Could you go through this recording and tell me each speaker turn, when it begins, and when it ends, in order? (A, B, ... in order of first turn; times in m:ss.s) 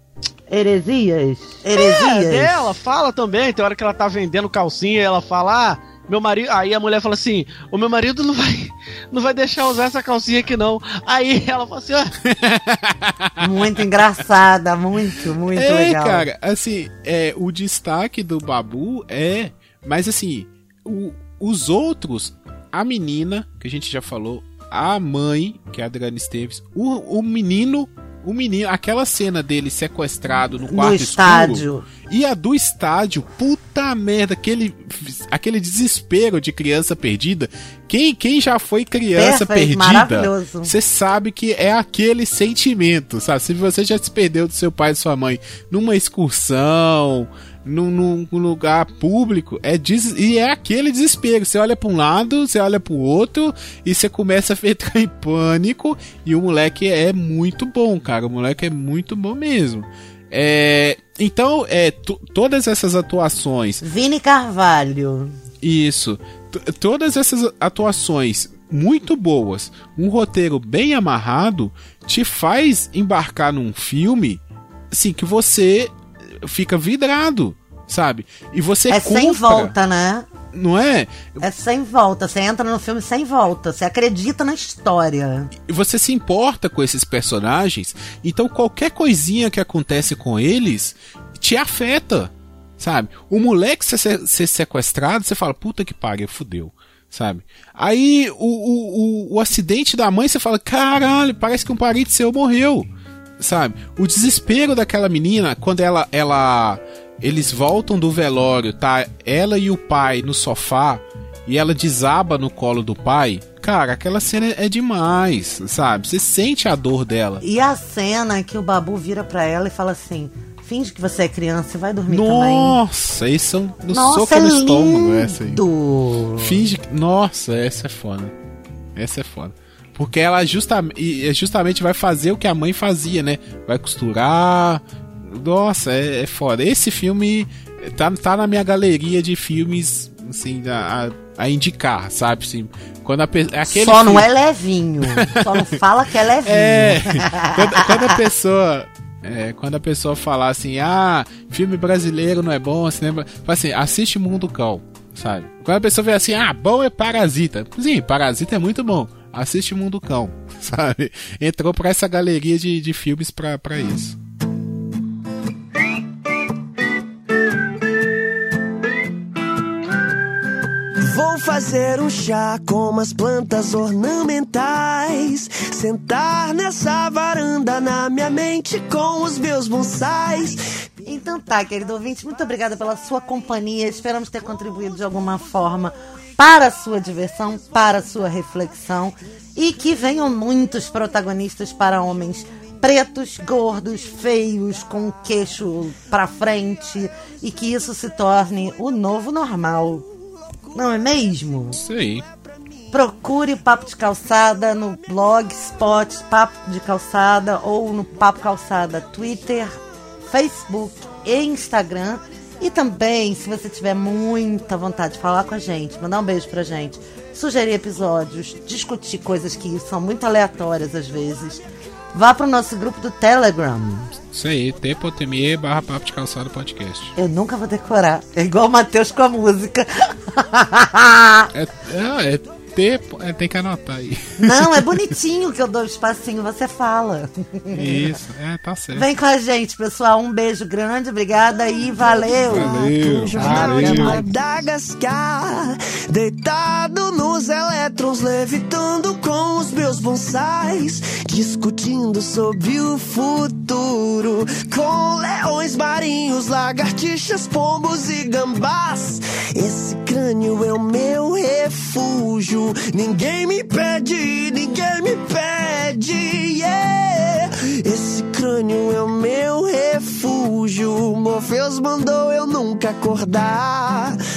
0:00.5-0:02.8 A
0:01.8-0:12.1 B
0:12.3-0:13.8 C
0:13.4-0:16.3 A
0:15.5-1:03.8 C
0:30.7-0:31.8 A
0:39.2-0:40.7 A
1:03.8-1:05.4 A
1:05.6-1:19.7 C
1:18.9-1:20.3 A
1:20.5-1:21.4 C
1:21.4-1:25.5 A
1:25.7-1:42.9 C
1:43.4-1:57.4 C
1:57.4-2:02.8 A
2:02.1-2:05.6 C
2:03.9-2:06.6 A
2:06.4-2:08.3 C
2:09.0-2:24.2 C
2:23.7-2:28.2 A
2:25.1-2:25.7 C
2:26.4-2:44.2 C
2:51.0-3:00.8 D
3:01.0-3:20.0 A
3:20.7-3:21.8 A
3:21.8-3:22.2 C
3:22.9-3:44.2 A
3:44.3-3:47.1 C
3:47.2-3:51.5 A
3:51.5-3:54.9 C
3:54.4-3:58.2 A
3:57.7-3:59.1 C
3:58.9-4:04.3 A
4:02.2-4:34.2 D
4:02.4-4:04.2 C